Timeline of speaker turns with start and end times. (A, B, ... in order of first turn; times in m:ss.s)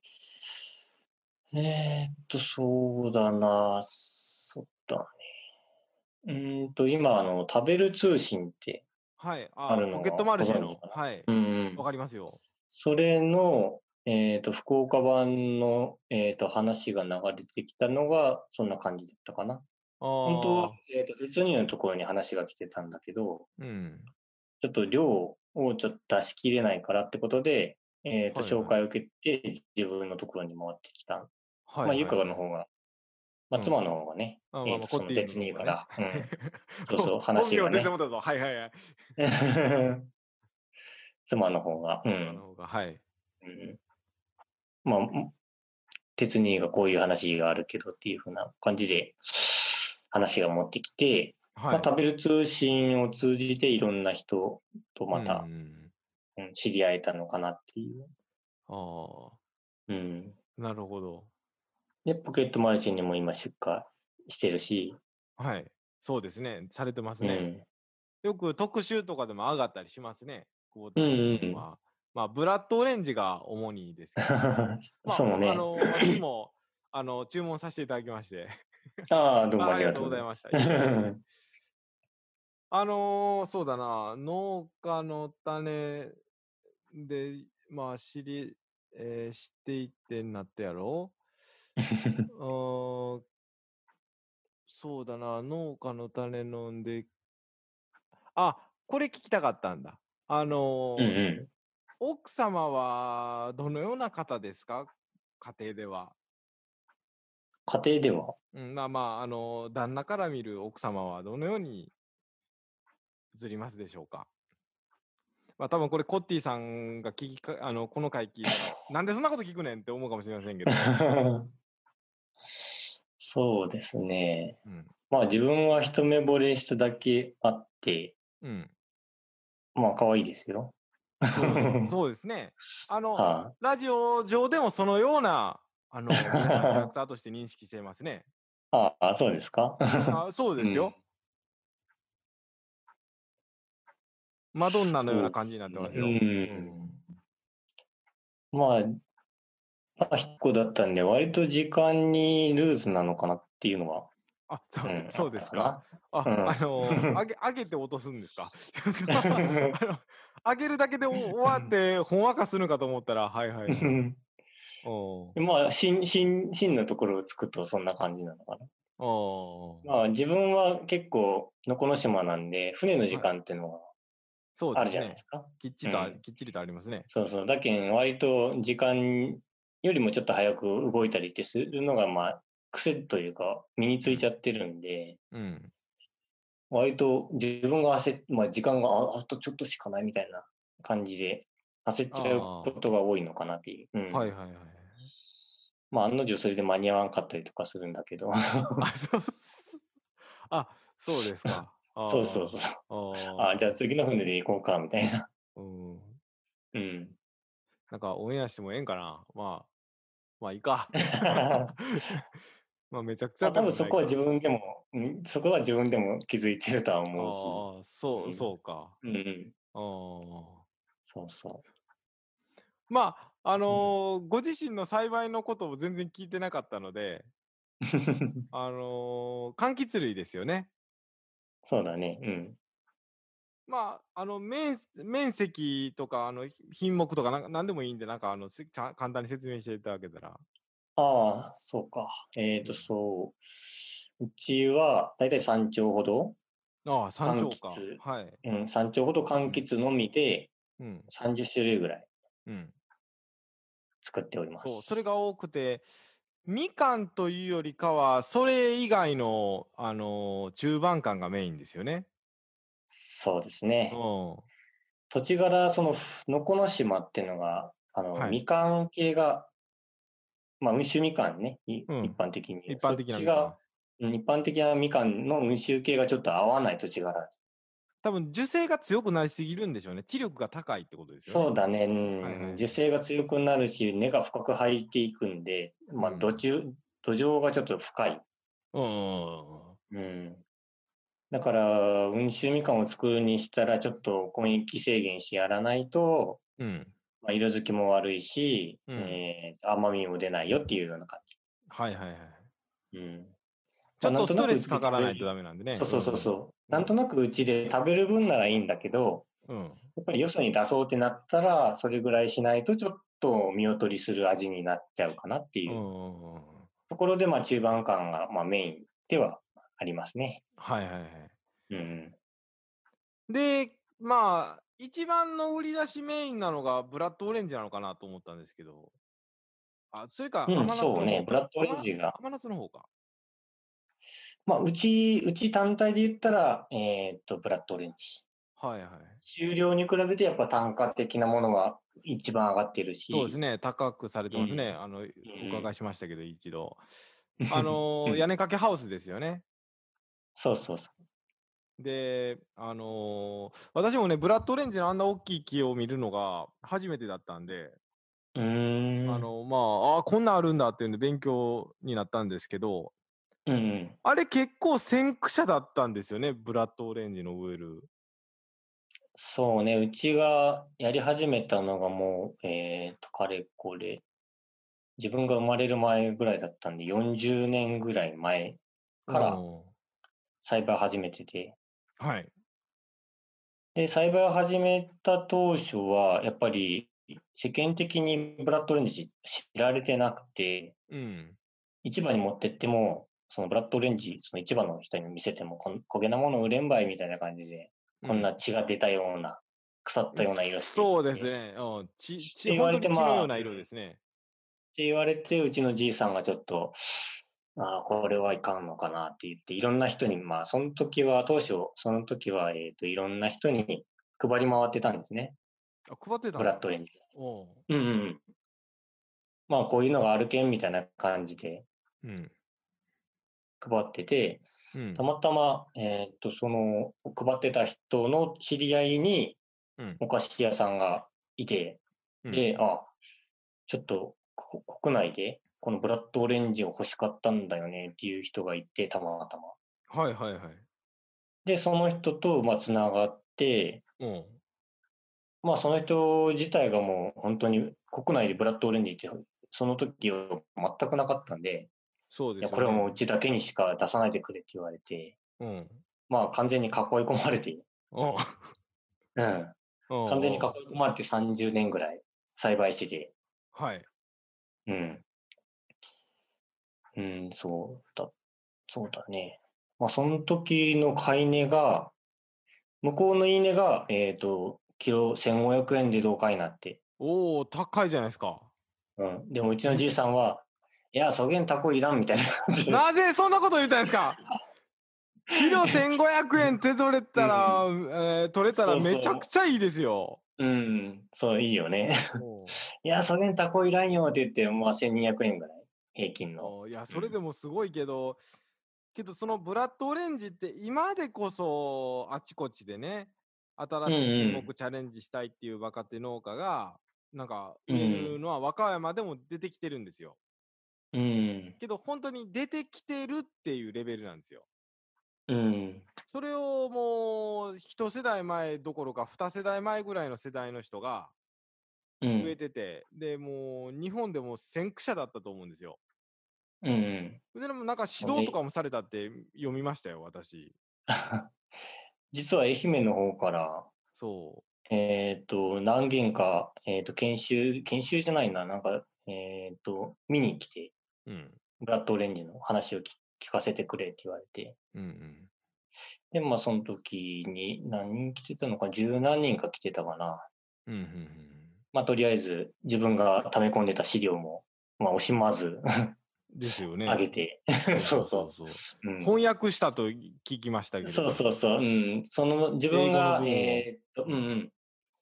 0:01.5-0:05.2 A
0:06.2-0:08.8 A
0:09.2-0:12.4 B
0:09.7-0:11.8 A
0:12.7-0:19.6 A
0:20.0-0:20.8 B
0:20.2-0:23.5 A
0:23.6-0:24.1 B
0:24.6-0:31.3 A
0:28.3-0:28.8 B
0:31.7-0:32.4 B
0:31.8-0:32.7 A
0:33.5-0:36.3 A
0:34.5-0:38.9 B
0:36.8-0:37.9 A
0:39.2-0:40.1 A
0:41.3-0:42.4 A
0:42.2-0:43.0 B
0:43.4-0:43.8 A
0:44.8-0:45.4 A
0:46.2-0:55.5 A
0:51.6-0:51.9 B
0:55.1-0:55.9 B
0:56.4-0:58.1 A
0:58.7-0:59.4 B
0:59.9-1:00.4 A
1:00.6-1:01.3 B
1:02.0-1:05.0 A
1:05.4-1:07.5 B
1:07.2-1:07.6 A
1:08.2-1:14.4 B
1:11.0-1:11.6 A
1:14.2-1:16.2 A
1:15.0-1:18.6 B
1:19.1-1:21.2 A
1:19.6-1:21.1 B
1:22.7-1:26.2 B
1:26.9-1:31.1 B
1:31.9-1:32.3 A
1:32.3-1:33.2 B
1:34.7-1:37.1 B
1:38.4-1:41.2 B
1:41.0-1:41.5 A
1:42.0-1:46.2 B
1:47.7-1:48.4 A
1:48.5-1:51.9 B
1:53.3-1:54.3 B
1:55.6-2:01.0 B
2:00.7-2:01.5 A
2:03.2-2:04.6 A
2:04.7-2:04.9 B
2:05.1-2:08.2 A
2:08.4-2:08.7 B
2:09.8-2:11.9 A
2:11.3-2:18.3 B
2:13.2-2:13.5 A
2:16.1-2:16.9 A
2:18.7-2:21.0 A
2:20.1-2:21.0 B
2:24.5-2:27.0 B
2:24.7-2:26.9 A
2:28.5-2:29.0 A
2:30.0-2:34.1 A
2:34.5-2:44.0 B
2:34.8-2:37.2 A
2:39.1-2:39.8 A
2:43.7-2:44.2 A
2:44.8-2:45.4 B
2:45.4-2:48.7 A
2:49.0-2:49.9 B
2:49.8-2:53.9 A
2:54.6-2:57.1 B
2:54.7-2:56.2 A
2:57.1-3:05.2 A
3:05.3-3:05.7 B
3:06.7-3:14.3 A
3:12.1-3:12.8 B
3:14.1-3:15.0 B
3:15.9-3:18.9 A
3:18.8-3:19.8 B
3:20.5-3:23.8 B
3:21.5-3:22.8 A
3:23.3-3:25.3 A
3:25.6-3:26.2 B
3:26.7-3:27.2 A
3:27.9-3:29.7 B
3:30.4-3:32.3 B
3:31.2-3:31.8 A
3:32.9-3:34.2 B
3:33.4-3:38.5 A
3:37.2-3:39.0 B
3:39.0-3:39.5 A
3:39.7-3:40.6 B
3:41.1-3:41.6 A
3:42.9-3:47.3 B
3:47.9-3:48.4 A
3:48.5-3:50.7 B
3:51.6-3:52.6 A
3:53.7-4:00.4 B
4:01.0-4:06.4 A
4:02.6-4:02.9 B
4:06.8-4:08.4 B
4:07.2-4:10.5 A
4:10.8-4:11.1 B
4:11.1-4:12.1 A
4:12.5-4:12.7 B
4:14.0-4:15.1 A
4:14.6-4:15.9 B
4:16.4-4:22.1 B
4:22.9-4:24.0 A
4:23.9-4:24.5 B
4:25.1-4:29.5 A
4:28.2-4:28.4 B
4:30.6-4:37.3 A
4:31.9-4:33.6 B
4:38.0-4:41.5 B
4:41.2-4:48.2 A
4:42.2-4:42.7 B
4:46.0-4:46.4 B
4:48.7-4:49.8 B
4:49.9-4:50.4 A
4:51.3-4:56.4 A
4:56.6-4:56.9 B
4:57.2-5:01.4 A
4:58.9-4:59.2 B
5:01.7-5:02.5 B
5:02.9-5:03.3 A
5:04.0-5:06.9 B
5:04.0-5:09.3 A
5:09.5-5:09.9 B
5:10.0-5:15.8 A
5:15.7-5:16.7 B
5:16.9-5:20.4 A
5:20.6-5:21.4 B
5:21.7-5:22.2 A
5:23.3-5:28.9 B
5:29.9-5:32.9 B
5:30.5-5:32.2 A
5:34.5-5:38.2 A
5:38.6-5:39.2 B
5:39.2-5:43.4 A
5:43.1-5:46.8 B
5:44.3-5:44.7 A
5:45.2-5:45.7 A
5:47.4-5:48.2 A
5:47.5-5:49.4 B
5:50.4-5:51.0 A
5:51.8-5:57.8 B
5:58.4-5:59.3 A
5:59.1-6:02.9 B
6:03.5-6:04.0 A
6:04.0-6:07.9 B
6:09.2-6:14.0 A
6:15.0-6:19.4 A
6:19.1-6:19.7 B
6:20.4-6:21.6 A
6:22.0-6:22.3 B
6:23.8-6:30.8 A
6:30.9-6:31.4 B
6:31.8-6:41.3 A
6:38.0-6:38.3 B
6:40.1-6:44.0 B
6:42.3-6:43.6 A
6:44.7-6:55.4 A
6:55.9-6:56.6 B
6:56.4-6:57.0 A
6:57.2-6:57.7 B
6:57.7-6:58.2 A
6:59.5-7:01.7 A
7:02.0-7:02.3 B
7:03.6-7:09.4 A
7:04.7-7:05.0 B
7:10.0-7:12.9 A
7:13.7-7:19.6 A
7:19.9-7:20.6 B
7:21.4-7:23.8 A
7:24.0-7:24.4 B
7:25.4-7:31.7 A
7:32.1-7:33.0 B
7:32.4-7:35.2 A
7:35.4-7:35.8 B
7:36.1-7:37.7 A
7:37.9-7:38.5 B
7:39.2-7:39.6 A
7:39.9-7:40.5 B
7:40.1-7:43.1 A
7:43.5-7:43.9 B
7:44.7-7:45.0 A
7:47.0-7:48.1 A
7:48.7-7:51.9 A
7:52.8-7:56.8 A
7:57.0-7:58.5 B
7:59.0-8:02.8 A
8:02.7-8:04.2 B
8:05.3-8:10.2 B
8:07.2-8:07.6 A
8:08.5-8:09.3 A
8:10.4-8:12.0 A
8:12.2-8:12.6 B
8:12.7-8:17.2 A
8:16.4-8:18.2 B
8:18.9-8:30.2 B
8:23.9-8:24.5 A
8:27.7-8:28.2 A
8:30.9-8:31.6 A
8:31.6-8:34.4 B
8:35.3-8:35.9 A
8:36.1-8:41.1 B
8:42.0-8:42.4 A
8:42.2-8:45.8 B
8:46.6-8:47.2 A
8:47.3-8:50.6 B
8:48.0-8:48.4 A
8:50.9-8:51.3 A
8:52.1-8:53.7 A
8:54.0-8:54.4 B
8:54.7-9:00.7 A
9:01.1-9:01.4 B
9:01.6-9:04.6 A
9:04.7-9:05.3 B
9:06.1-9:10.3 A
9:10.7-9:11.6 B
9:11.7-9:16.0 A
9:16.3-9:17.0 B
9:16.9-9:19.2 A
9:17.7-9:21.2 B
9:20.8-9:24.5 A
9:22.7-9:23.7 B